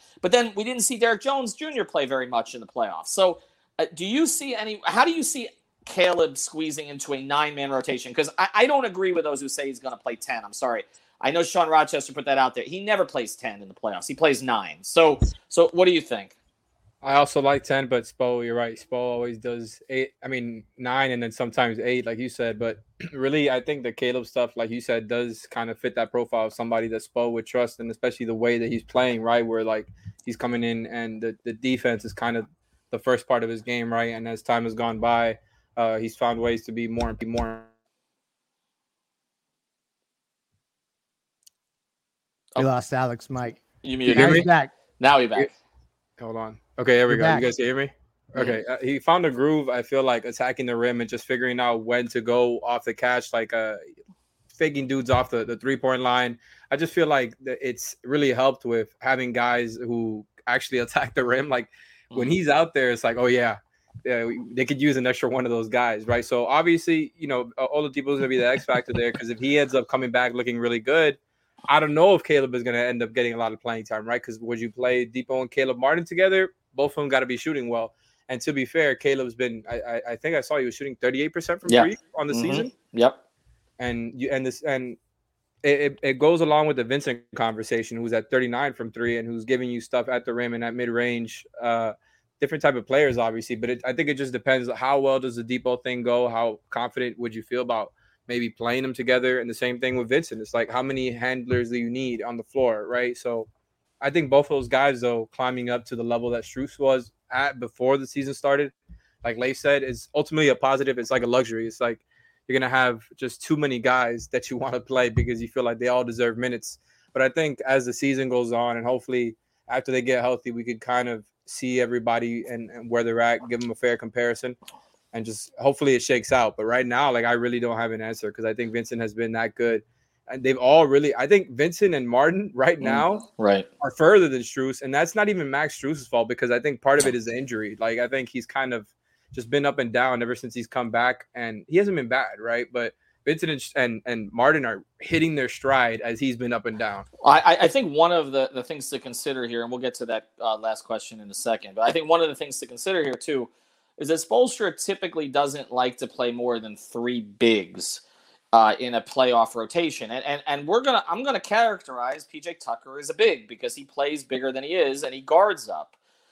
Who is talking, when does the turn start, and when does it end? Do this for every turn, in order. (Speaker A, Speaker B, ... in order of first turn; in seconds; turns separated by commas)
Speaker A: 0.2-16.3, Speaker B: 17.0-37.7, Speaker C: 42.6-44.7, Speaker A: 43.8-45.5, Speaker B: 44.1-44.5, Speaker B: 46.2-53.8, Speaker C: 47.1-47.4, Speaker B: 54.5-82.7, Speaker A: 62.1-62.4, Speaker A: 81.7-83.2, Speaker B: 83.8-85.0, Speaker B: 85.6-103.5, Speaker B: 104.0-124.6, Speaker B: 125.1-133.2, Speaker A: 132.8-133.7, Speaker B: 133.8-147.1, Speaker A: 147.2-165.9